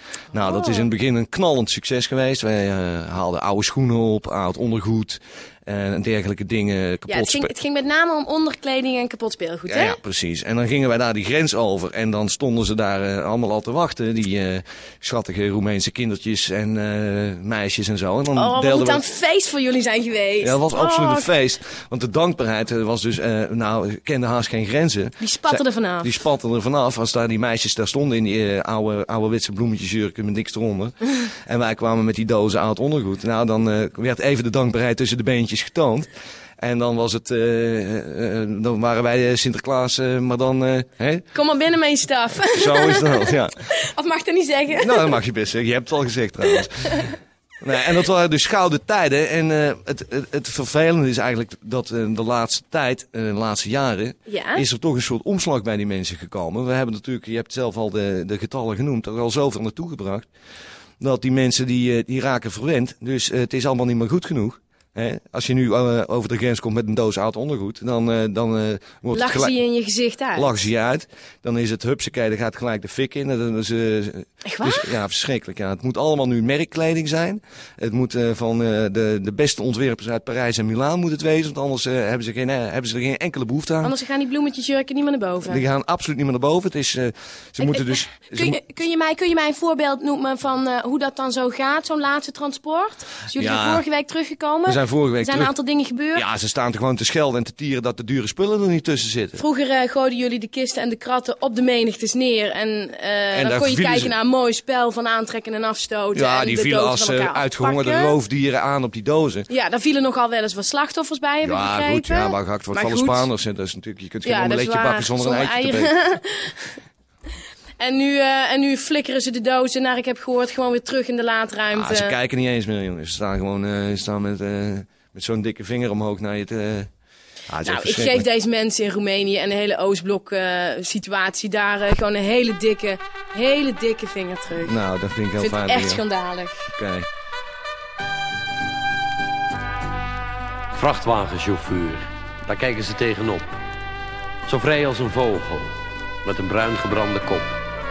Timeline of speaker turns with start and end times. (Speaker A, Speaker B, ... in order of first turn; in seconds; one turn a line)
Speaker A: 0.3-7.5
Speaker B: 0.5-0.9
Speaker B: 7.1-10.0
Speaker A: 9.7-19.1
Speaker B: 18.4-21.3
Speaker A: 20.4-36.1
Speaker B: 25.2-26.1
Speaker A: 36.6-41.3
Speaker B: 41.3-45.1
Speaker A: 42.5-43.6
Speaker A: 44.8-60.3
Speaker B: 54.3-54.6
Speaker A: 61.0-69.5
Speaker B: 69.1-70.5
Speaker A: 70.3-84.0
Speaker B: 74.5-74.9
Speaker B: 83.8-85.6
Speaker A: 85.5-88.6
Speaker B: 87.6-96.2
Speaker A: 93.3-93.8
Speaker A: 94.7-95.5
Speaker A: 96.1-99.4
Speaker B: 99.4-108.2
Speaker A: 103.3-104.2
Speaker A: 106.1-109.5
Speaker B: 109.5-113.3
Speaker A: 111.4-115.9
Speaker B: 114.2-116.7
Speaker B: 117.8-122.2
Speaker A: 121.7-126.9
Speaker A: 127.5-128.3
Speaker B: 127.6-134.8
Speaker A: 134.7-136.0
Speaker B: 135.4-136.7
Speaker A: 136.7-137.1
Speaker C: 140.7-143.6
Speaker C: 144.5-147.6